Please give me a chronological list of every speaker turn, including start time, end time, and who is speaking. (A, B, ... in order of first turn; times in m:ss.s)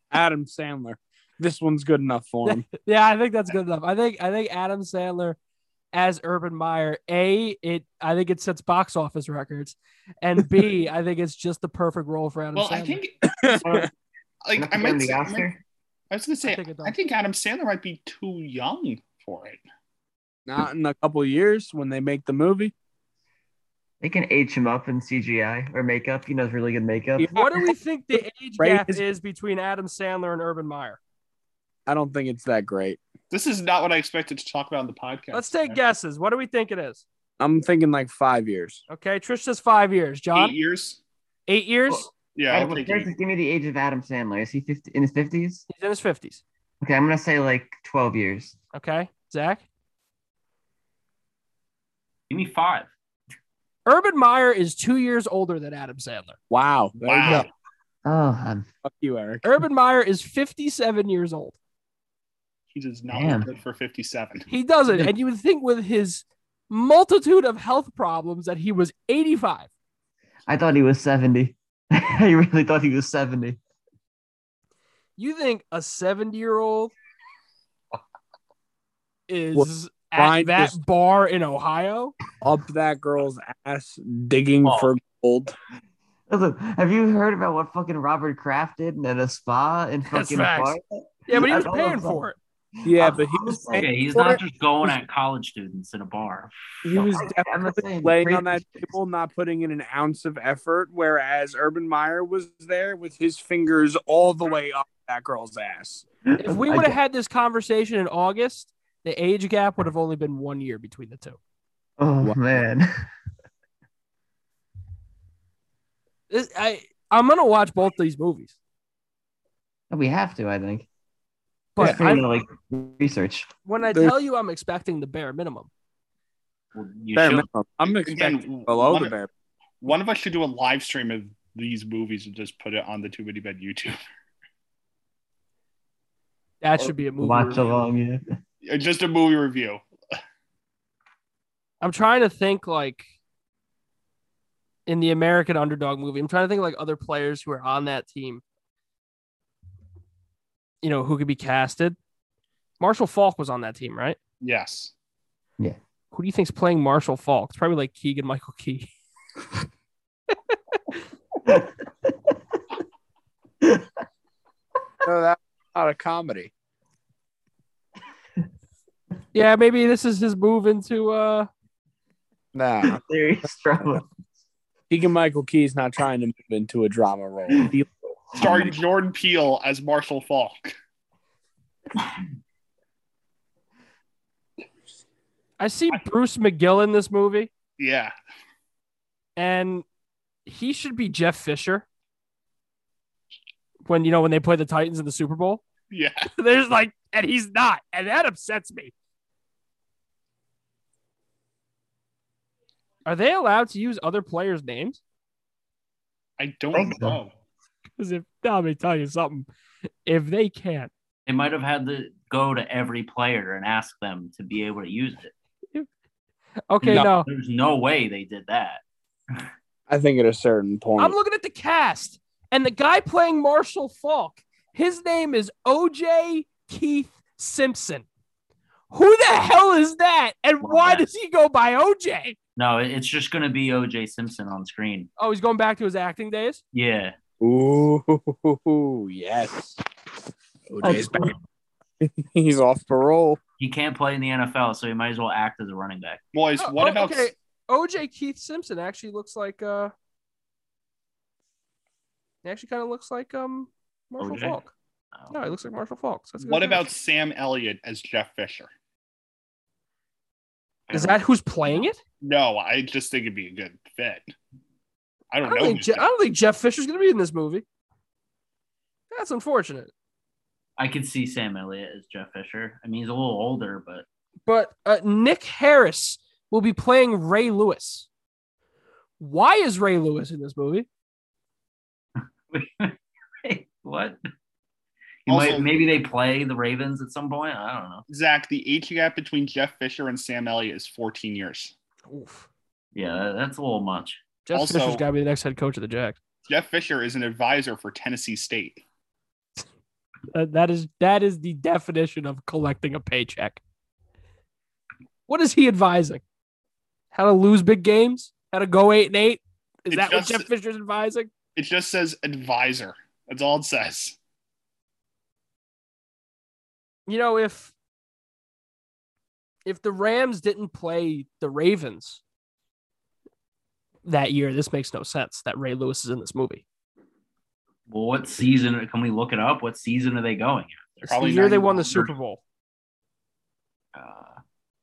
0:00.1-0:02.7 A
0:02.4-0:05.4 B
0:05.9-0:13.0 B
0:12.6-0:13.9 C
0:13.3-0:13.9 A
0:14.4-0:15.5 C
0:14.6-0:15.6 D
0:16.1-0:19.6 C
0:16.4-0:17.0 B
0:20.5-0:22.7 A
0:24.0-0:27.3 D
0:27.2-0:27.7 A
0:27.3-0:31.0 B
0:28.6-0:29.0 A
0:31.9-0:33.0 A
0:33.3-0:35.8 C
0:35.3-0:37.0 B
0:37.4-0:38.8 A
0:38.9-0:40.5 B
0:40.4-0:41.0 C
0:41.5-0:42.1 B
0:42.4-0:43.1 C
0:42.5-0:45.6 D
0:45.7-0:46.4 B
0:46.8-0:48.6 D
0:48.7-0:49.6 B
0:52.3-0:52.9 E
0:53.9-0:56.4 B
0:56.5-0:57.5 A
0:57.0-0:57.5 C
0:58.0-0:58.7 D
0:58.8-0:59.4 A
0:59.4-1:01.6 B
1:02.7-1:04.5 C
1:03.1-1:03.5 D
1:04.5-1:09.7 B
1:10.5-1:13.6 D
1:15.2-1:16.9 B
1:19.3-1:22.2 B
1:19.5-1:20.8 A
1:22.4-1:25.5 A
1:24.6-1:24.9 E
1:26.3-1:32.2 D
1:30.1-1:32.4 B
1:32.8-1:33.9 D
1:32.8-1:34.4 A
1:33.7-1:36.5 E
1:36.8-1:46.0 A
1:36.9-1:38.9 D
1:46.3-1:47.0 D
1:46.4-1:51.4 B
1:52.0-1:53.0 D
1:56.3-1:58.5 B
1:59.9-2:00.9 D
2:01.8-2:02.2 B
2:01.8-2:02.0 A
2:01.8-2:03.5 D
2:03.7-2:05.7 B
2:06.7-2:07.5 E
2:07.1-2:09.3 A
2:07.9-2:09.2 C
2:09.8-2:14.0 C
2:16.6-2:17.8 B
2:17.2-2:18.2 D
2:18.6-2:19.8 C
2:21.8-2:23.1 B
2:24.9-2:28.4 B
2:30.8-2:32.0 B
2:32.8-2:34.2 B
2:34.4-2:34.9 C
2:36.1-2:38.9 B
2:43.6-2:43.9 D
2:45.0-2:46.5 A
2:49.3-2:51.5 B
2:52.5-2:53.0 A
2:52.8-2:54.0 D
2:54.9-2:58.7 A
2:58.4-2:58.7 D
2:58.4-3:00.7 C
3:05.6-3:07.5 B
3:07.8-3:08.1 C
3:09.4-3:09.8 B
3:10.5-3:11.8 B
3:13.9-3:15.6 B
3:15.9-3:16.3 C
3:16.4-3:18.9 B
3:23.1-3:25.0 B
3:26.4-3:27.3 C
3:26.7-3:27.2 D
3:28.0-3:29.5 B
3:30.1-3:30.9 B
3:31.3-3:35.3 E
3:36.7-3:37.3 B
3:36.8-3:38.8 E
3:36.9-3:37.1 A
3:39.9-3:41.2 A
3:41.0-3:48.1 B
3:48.9-3:52.4 B
3:50.6-3:51.1 E
3:52.6-3:55.1 E
3:55.2-3:56.6 B
3:56.7-3:57.2 E
3:57.4-3:59.8 A
4:00.7-4:01.3 A
4:00.8-4:01.3 D
4:02.0-4:03.4 A
4:03.6-4:06.2 E
4:06.3-4:07.3 C
4:06.6-4:09.9 B
4:12.4-4:14.7 B
4:14.2-4:14.6 E
4:15.3-4:16.9 B
4:16.4-4:18.7 C
4:20.9-4:21.9 E
4:20.9-4:22.0 B
4:22.2-4:24.3 C
4:25.3-4:26.1 C
4:25.4-4:27.6 B
4:29.1-4:29.9 B
4:30.8-4:34.0 E
4:34.5-4:38.1 B
4:39.2-4:40.9 B
4:42.5-4:44.2 E
4:45.3-4:48.0 E
4:45.3-4:45.7 C
4:48.1-4:51.7 C
4:52.1-4:52.5 B
4:53.0-4:54.2 E
4:54.5-4:56.2 B
4:54.5-4:55.0 C
4:56.5-4:58.8 C
5:00.3-5:03.6 B
5:05.3-5:06.2 B
5:07.1-5:11.3 B
5:09.9-5:10.5 C
5:11.6-5:14.2 C
5:17.1-5:17.7 B
5:19.7-5:22.2 B
5:24.0-5:26.6 B
5:27.9-5:31.1 E
5:31.0-5:32.4 B
5:31.1-5:32.1 C
5:34.0-5:34.4 E